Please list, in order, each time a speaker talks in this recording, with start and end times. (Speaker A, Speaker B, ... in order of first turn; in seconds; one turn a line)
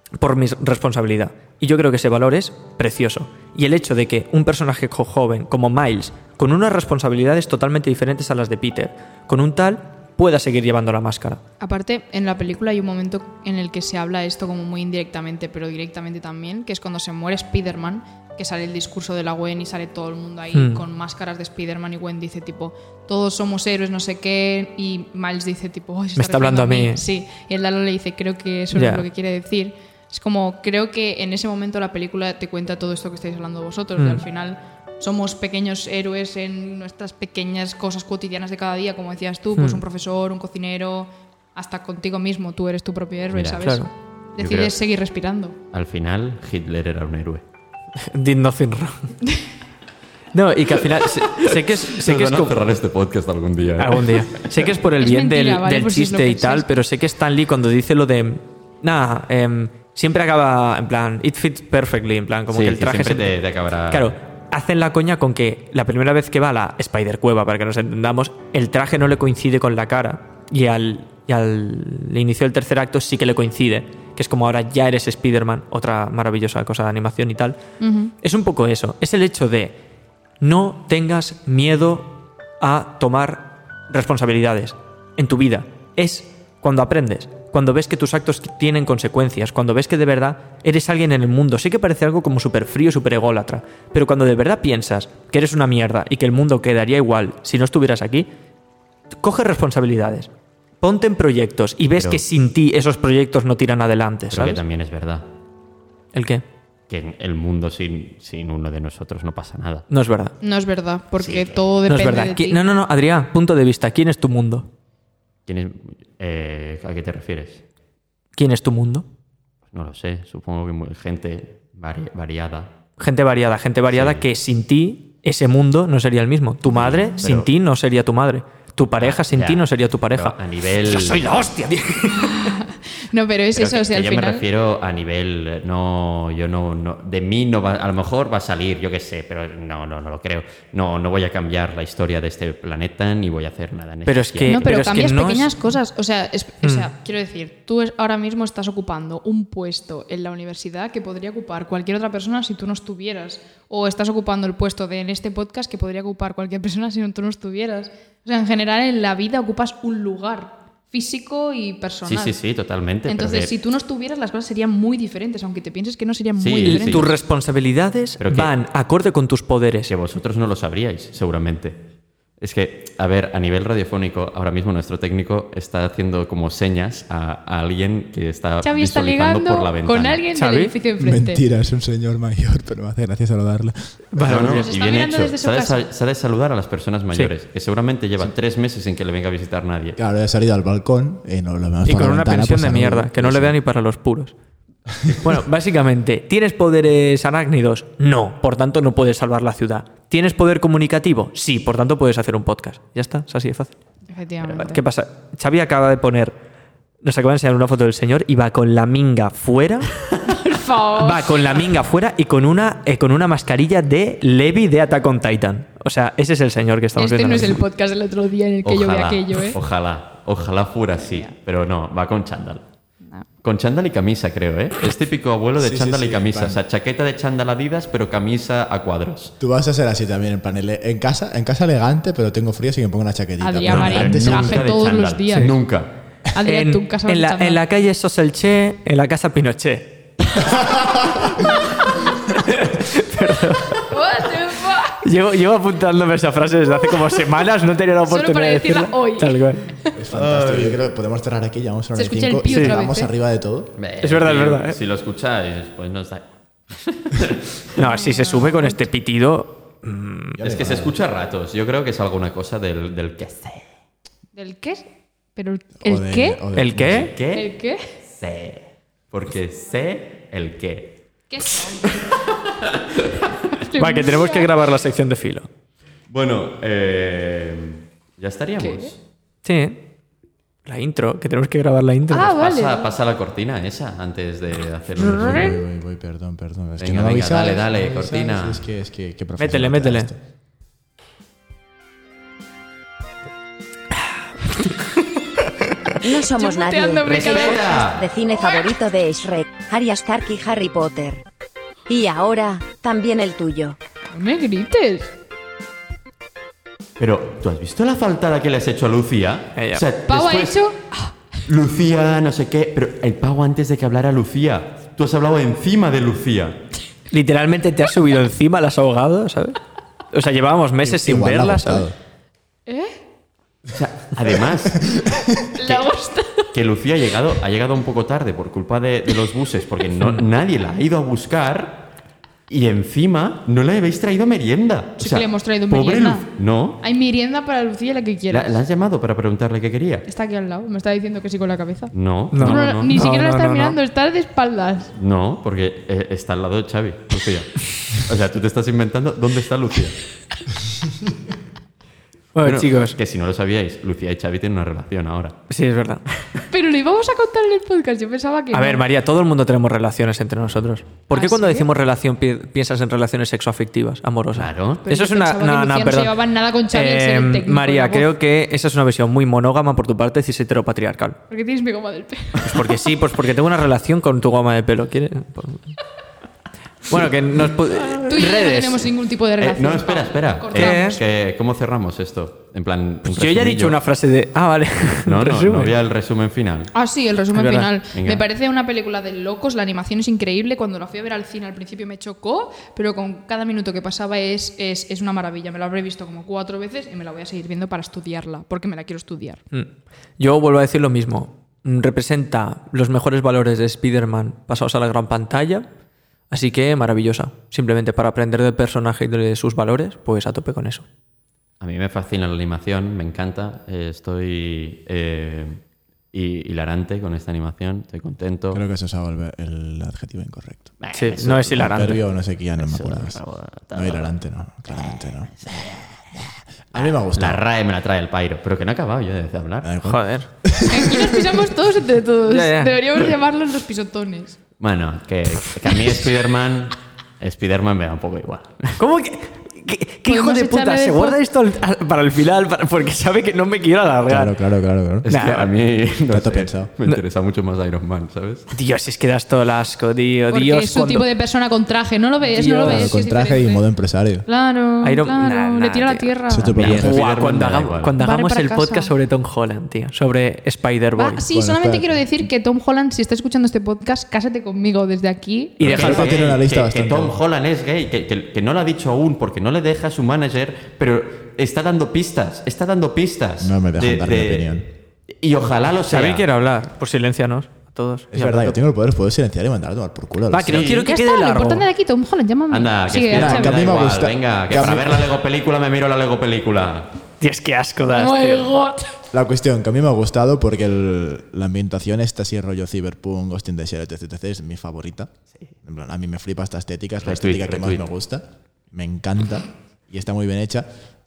Speaker A: 0.2-11.4
Speaker B: 11.6-45.6
Speaker A: 20.5-20.8
Speaker A: 26.1-27.0
Speaker A: 28.7-29.1
Speaker A: 34.0-34.3
Speaker A: 39.5-39.8
Speaker C: 43.3-43.6
Speaker A: 43.6-43.9
Speaker C: 44.4-44.7
Speaker C: 45.7-47.4
Speaker A: 48.0-49.1
Speaker A: 50.3-52.6
Speaker C: 51.5-54.4
Speaker A: 53.8-63.3
Speaker B: 55.0-56.7
Speaker C: 62.5-64.1
Speaker A: 63.9-77.6
Speaker B: 77.8-78.1
Speaker A: 78.2-79.8
Speaker A: 80.4-98.3
Speaker A: 99.1-100.3
Speaker A: 100.8-104.6
Speaker C: 101.9-102.2
Speaker C: 104.3-105.2
Speaker A: 106.1-106.4
Speaker C: 106.9-109.9
Speaker A: 109.9-110.3
Speaker B: 110.4-112.6
Speaker C: 111.2-111.6
Speaker A: 111.9-114.7
Speaker C: 115.5-117.6
Speaker A: 118.3-119.0
Speaker C: 119.7-122.7
Speaker A: 123.0-132.5
Speaker C: 123.9-124.3
Speaker C: 126.7-127.5
Speaker C: 129.0-131.3
Speaker B: 132.1-134.4
Speaker C: 133.5-145.0
Speaker A: 144.1-145.5
Speaker B: 144.4-162.4
Speaker A: 146.6-146.9
Speaker C: 162.0-163.5
Speaker B: 163.1-167.1
Speaker C: 166.4-167.1
Speaker A: 166.6-169.9
Speaker C: 168.2-168.5
Speaker C: 169.8-171.8
Speaker C: 172.4-180.2
Speaker B: 178.6-181.4
Speaker A: 180.3-180.7
Speaker D: 181.0-183.9
Speaker A: 184.1-184.7
Speaker C: 184.2-190.0
Speaker B: 184.4-185.9
Speaker D: 190.0-193.6
Speaker A: 191.8-194.3
Speaker A: 195.1-203.7
Speaker B: 204.1-204.8
Speaker A: 204.5-206.4
Speaker A: 207.0-210.0
Speaker B: 210.3-211.7
Speaker A: 210.9-217.6
Speaker B: 216.9-219.6
Speaker C: 218.6-222.6
Speaker B: 221.0-221.3
Speaker C: 223.4-229.3
Speaker D: 225.6-226.6
Speaker D: 229.4-234.7
Speaker B: 233.4-235.6
Speaker C: 233.7-235.9
Speaker B: 236.3-237.6
Speaker A: 236.4-240.6
Speaker D: 240.4-241.2
Speaker A: 242.3-243.9
Speaker B: 243.9-245.0
Speaker A: 245.0-249.7
Speaker B: 248.1-250.0
Speaker D: 249.9-253.7
Speaker C: 250.1-250.8
Speaker B: 251.9-253.1
Speaker A: 252.5-252.8
Speaker C: 253.8-256.3
Speaker A: 254.0-254.8
Speaker C: 257.1-257.4
Speaker A: 257.7-260.4
Speaker B: 257.8-258.8
Speaker D: 260.4-260.9
Speaker C: 260.4-263.7
Speaker B: 264.3-266.5
Speaker D: 265.8-267.1
Speaker A: 266.5-267.1
Speaker C: 266.8-271.0
Speaker B: 267.3-267.9
Speaker B: 271.3-272.2
Speaker B: 273.5-274.5
Speaker A: 273.7-275.5
Speaker C: 276.1-279.0
Speaker B: 278.6-278.9
Speaker A: 279.4-279.9
Speaker A: 280.6-282.4
Speaker B: 282.1-282.9
Speaker C: 282.2-285.6
Speaker D: 285.0-290.2
Speaker C: 286.8-288.6
Speaker A: 289.4-290.1
Speaker E: 296.0-301.2
Speaker B: 296.0-297.9
Speaker C: 297.0-298.1
Speaker E: 301.9-303.8
Speaker B: 304.1-305.1
Speaker C: 307.0-310.6
Speaker A: 309.6-309.8
Speaker B: 310.1-311.1
Speaker C: 311.4-316.6
Speaker A: 317.1-319.6
Speaker A: 320.1-321.9
Speaker D: 320.8-321.9
Speaker B: 322.7-323.0
Speaker C: 323.7-324.9
Speaker D: 324.8-325.3
Speaker B: 325.6-326.5
Speaker C: 325.6-325.9
Speaker C: 326.5-331.9
Speaker C: 332.5-336.8
Speaker B: 335.0-336.3
Speaker B: 336.8-338.6
Speaker C: 338.3-340.1
Speaker B: 340.1-344.9
Speaker C: 341.9-343.0
Speaker A: 342.3-343.8
Speaker C: 344.9-350.0
Speaker A: 352.3-353.0
Speaker C: 352.4-355.4
Speaker A: 355.5-356.0
Speaker B: 356.5-358.8
Speaker A: 358.5-371.2
Speaker B: 361.1-361.7
Speaker C: 364.3-364.8
Speaker B: 364.8-368.1
Speaker B: 371.3-372.4
Speaker A: 372.4-375.8
Speaker A: 376.9-378.9
Speaker B: 377.9-381.0
Speaker C: 379.4-383.8
Speaker A: 380.5-381.0
Speaker A: 383.1-385.8
Speaker C: 384.9-386.7
Speaker B: 386.7-399.4
Speaker A: 387.3-387.7
Speaker C: 387.9-388.2
Speaker A: 399.5-405.6
Speaker A: 406.3-410.8
Speaker C: 411.6-418.6
Speaker D: 418.5-420.7
Speaker C: 420.8-421.9
Speaker A: 420.9-422.0
Speaker D: 421.6-425.6
Speaker C: 422.6-424.1
Speaker C: 424.7-426.1
Speaker D: 426.1-427.4
Speaker C: 426.7-429.7
Speaker D: 429.6-431.2
Speaker A: 429.8-430.3
Speaker B: 430.7-434.4
Speaker A: 432.2-433.0
Speaker C: 434.6-438.8
Speaker A: 438.8-444.4
Speaker B: 440.1-441.2
Speaker D: 444.1-445.1
Speaker A: 445.0-445.5
Speaker C: 445.0-448.5
Speaker D: 446.1-446.7
Speaker A: 448.5-451.1
Speaker B: 450.3-453.6
Speaker A: 452.2-453.0
Speaker D: 452.6-454.2
Speaker B: 454.2-456.6
Speaker A: 454.8-461.2
Speaker D: 456.3-456.9
Speaker C: 456.6-457.9
Speaker B: 458.0-458.9
Speaker B: 460.9-465.8
Speaker D: 461.3-462.2
Speaker A: 465.6-466.1
Speaker D: 465.6-467.2
Speaker C: 465.7-476.2
Speaker D: 473.4-474.7
Speaker A: 475.9-478.6
Speaker D: 478.1-480.7
Speaker A: 480.3-481.6
Speaker B: 480.7-483.8
Speaker C: 482.5-486.9
Speaker D: 483.0-485.1
Speaker A: 487.2-488.5
Speaker B: 487.9-488.9
Speaker D: 489.1-495.1
Speaker D: 495.6-500.7
Speaker C: 497.0-497.9